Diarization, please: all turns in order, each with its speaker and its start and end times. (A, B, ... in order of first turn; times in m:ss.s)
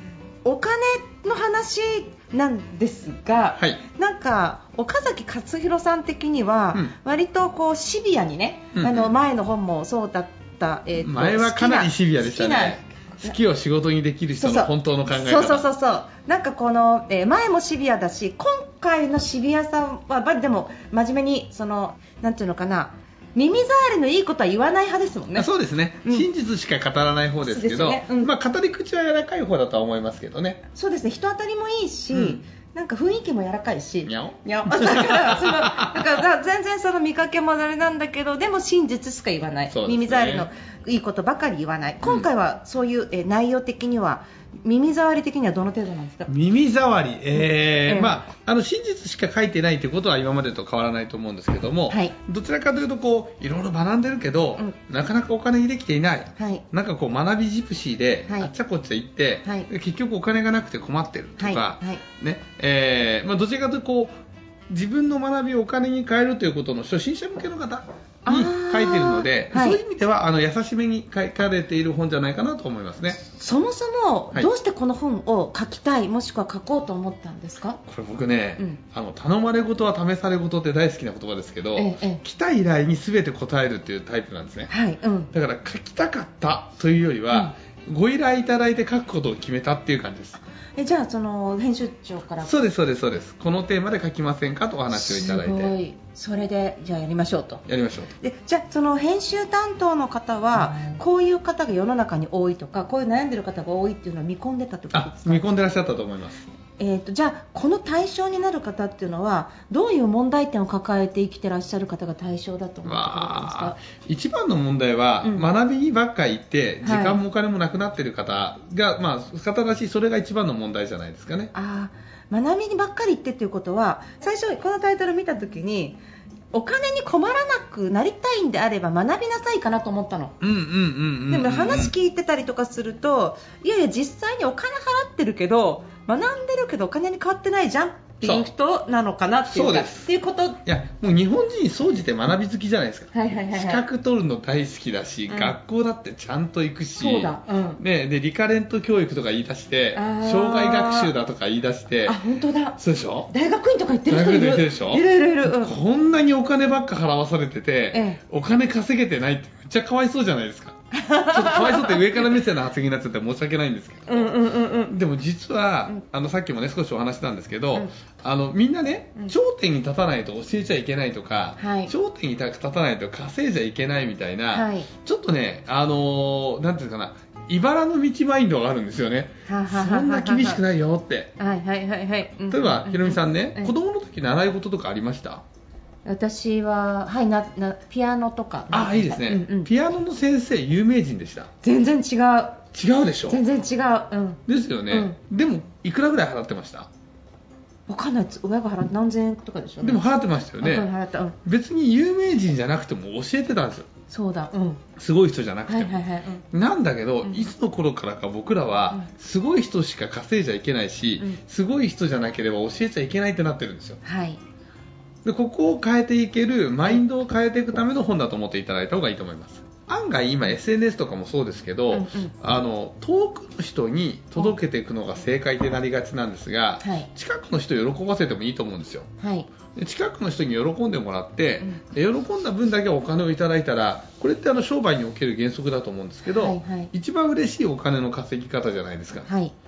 0:00.4-0:13.3 A
0:03.6-0:03.8 B
0:08.8-0:09.1 B
0:11.0-0:15.7 B
0:14.4-0:25.5 A
0:25.4-0:30.6 B
0:27.5-0:28.3 A
0:30.8-0:46.3 A
0:32.1-0:32.4 B
0:34.0-0:36.1 B
0:39.7-0:40.5 B
0:46.3-1:13.2 B
0:47.9-0:48.2 A
0:51.9-0:52.1 A
0:56.4-0:56.6 A
1:01.4-1:02.0 A
1:08.3-1:09.8 A
1:13.2-1:17.8 A
1:17.9-1:24.7 B
1:21.8-1:22.2 A
1:24.7-1:25.3 A
1:25.3-1:30.4 B
1:30.8-1:32.5 A
1:32.4-1:35.8 B
1:34.9-1:37.6 A
1:37.7-1:38.1 B
1:38.2-1:45.5 A
1:40.6-1:41.0 B
1:44.9-1:46.4 B
1:46.8-1:53.8 A
1:52.8-2:01.5 B
1:56.8-1:57.2 A
2:01.5-2:06.0 A
2:06.5-2:10.4 A
2:10.4-2:11.9 B
2:11.3-2:20.6 A
2:18.2-2:18.5 B
2:19.5-2:20.1 B
2:20.6-2:32.2 B
2:23.1-2:23.8 A
2:25.3-2:25.5 A
2:27.0-2:27.8 A
2:30.0-2:31.1 A
2:32.1-2:32.8 A
2:32.8-2:33.3 B
2:33.3-2:35.7 A
2:34.1-2:44.3 B
2:37.9-2:38.2 A
2:40.9-2:42.2 A
2:44.1-2:44.9 A
2:44.9-3:01.3 B
2:51.6-2:51.9 A
2:54.5-2:54.9 A
2:59.5-3:00.6 A
3:01.4-3:03.7 A
3:02.5-3:05.4 B
3:06.1-3:09.7 A
3:08.7-3:11.5 B
3:11.6-3:12.6 A
3:12.7-3:13.4 B
3:13.3-3:15.2 A
3:14.5-3:16.9 B
3:17.9-3:20.0 A
3:19.8-3:20.9 B
3:20.6-3:21.4 A
3:21.4-3:23.9 B
3:24.1-3:24.8 A
3:25.0-3:26.0 B
3:25.7-3:26.4 A
3:26.5-3:34.0 B
3:27.2-3:27.5 A
3:34.0-3:34.4 A
3:35.2-3:49.1 B
3:41.9-3:42.3 A
3:46.8-3:47.1 A
3:49.2-3:49.5 A
3:49.8-3:59.3 B
3:56.3-3:56.9 A
3:59.3-3:59.5 A